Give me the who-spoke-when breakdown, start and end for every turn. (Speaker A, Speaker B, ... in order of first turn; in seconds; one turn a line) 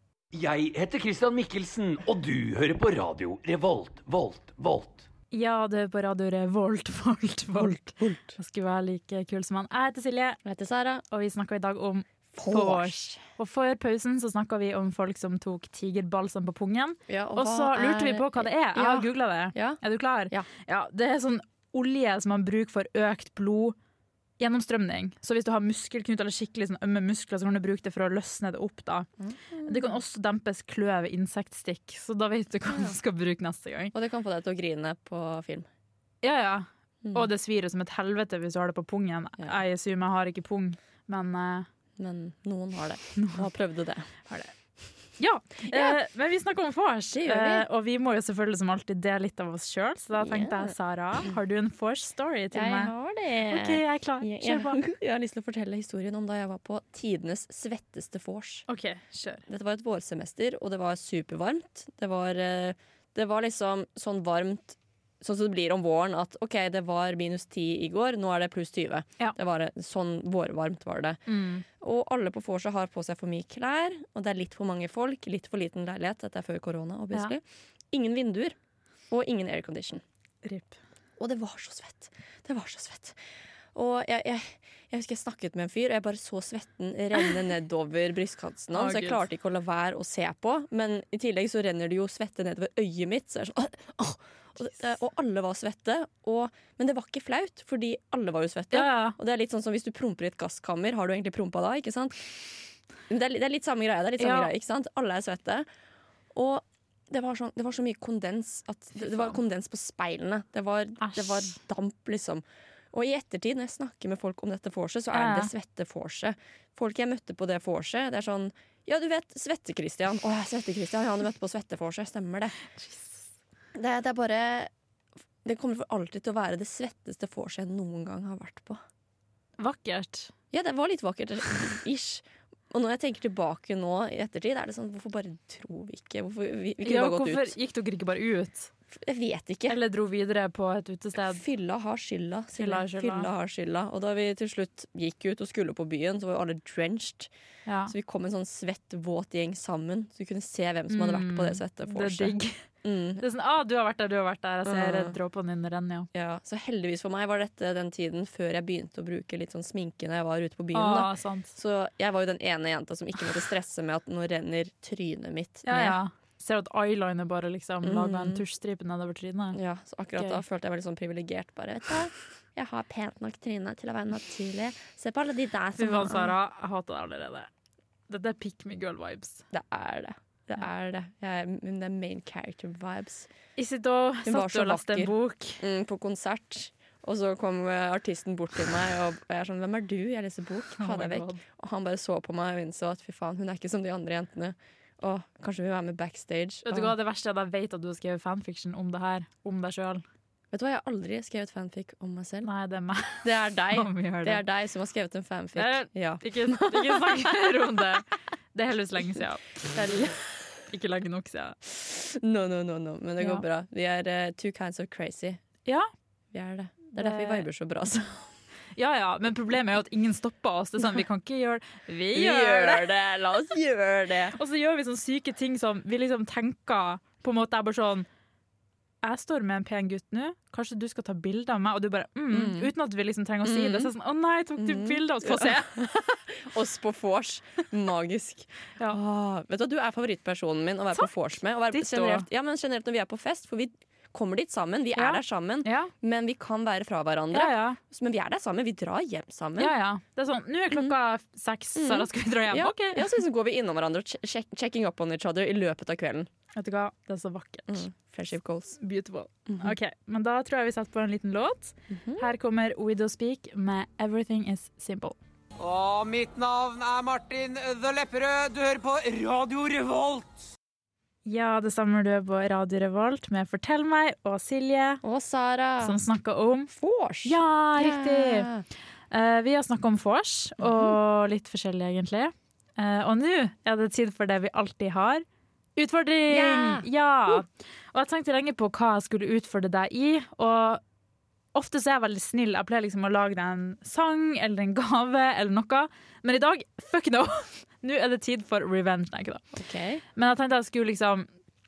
Speaker A: 0.3-5.1
Speaker B: 5.3-10.4
Speaker C: 7.5-8.3
Speaker C: 10.4-11.0
Speaker B: 11.1-23.8
Speaker C: 12.3-13.2
Speaker C: 17.1-20.5
Speaker B: 24.4-29.1
Speaker C: 29.2-29.9
Speaker B: 29.6-33.9
Speaker C: 33.9-35.7
Speaker B: 36.2-41.7
Speaker C: 42.0-44.1
Speaker B: 43.1-43.4
Speaker B: 45.2-52.9
Speaker C: 45.7-46.0
Speaker C: 47.1-47.7
Speaker C: 50.2-50.7
Speaker C: 52.5-58.6
Speaker B: 53.5-54.8
Speaker B: 58.7-59.5
Speaker C: 59.5-71.2
Speaker B: 71.3-71.6
Speaker C: 71.8-78.6
Speaker C: 79.1-80.0
Speaker B: 80.4-80.8
Speaker C: 81.2-83.2
Speaker C: 83.7-102.2
Speaker B: 88.7-89.2
Speaker B: 98.7-99.2
Speaker C: 103.1-105.7
Speaker B: 104.2-104.5
Speaker C: 106.3-122.6
Speaker B: 111.0-111.6
Speaker B: 115.1-115.5
Speaker B: 122.8-123.2
Speaker C: 123.7-124.7
Speaker C: 125.4-128.8
Speaker B: 129.6-130.3
Speaker C: 130.5-137.5
Speaker B: 136.8-138.7
Speaker C: 138.9-139.8
Speaker B: 139.7-141.4
Speaker C: 141.3-147.3
Speaker B: 142.6-143.3
Speaker B: 147.7-147.9
Speaker C: 147.9-153.2
Speaker B: 150.9-152.6
Speaker B: 153.2-156.1
Speaker C: 154.6-155.1
Speaker C: 156.1-166.0
Speaker B: 160.7-161.5
Speaker B: 165.7-169.6
Speaker C: 167.8-168.4
Speaker C: 169.5-176.3
Speaker B: 175.8-177.5
Speaker B: 178.1-179.4
Speaker C: 179.5-183.3
Speaker B: 183.6-185.6
Speaker C: 184.2-196.9
Speaker B: 190.8-191.4
Speaker B: 196.6-200.0
Speaker C: 200.5-202.5
Speaker B: 202.4-204.4
Speaker C: 203.2-207.4
Speaker B: 205.6-211.6
Speaker C: 211.7-215.4
Speaker C: 216.3-218.2
Speaker B: 217.0-217.4
Speaker B: 218.8-222.9
Speaker C: 222.1-224.3
Speaker B: 224.3-228.1
Speaker B: 229.0-235.7
Speaker C: 232.3-232.7
Speaker C: 233.4-233.9
Speaker C: 234.6-249.7
Speaker B: 241.7-242.2
Speaker B: 245.0-245.9
Speaker B: 247.3-247.8
Speaker B: 249.6-253.1
Speaker C: 251.8-256.3
Speaker B: 256.5-257.8
Speaker C: 257.7-258.8
Speaker B: 258.8-265.2
Speaker C: 259.5-259.8
Speaker C: 261.9-262.3
Speaker D: 265.6-270.5
Speaker B: 271.2-275.0
Speaker C: 275.0-276.0
Speaker B: 275.8-276.7
Speaker C: 276.7-278.6
Speaker B: 277.2-278.5
Speaker B: 279.1-285.2
Speaker C: 280.6-281.0
Speaker B: 285.8-290.8
Speaker C: 286.3-287.3
Speaker B: 291.5-299.4
Speaker C: 299.5-300.0
Speaker B: 300.2-301.3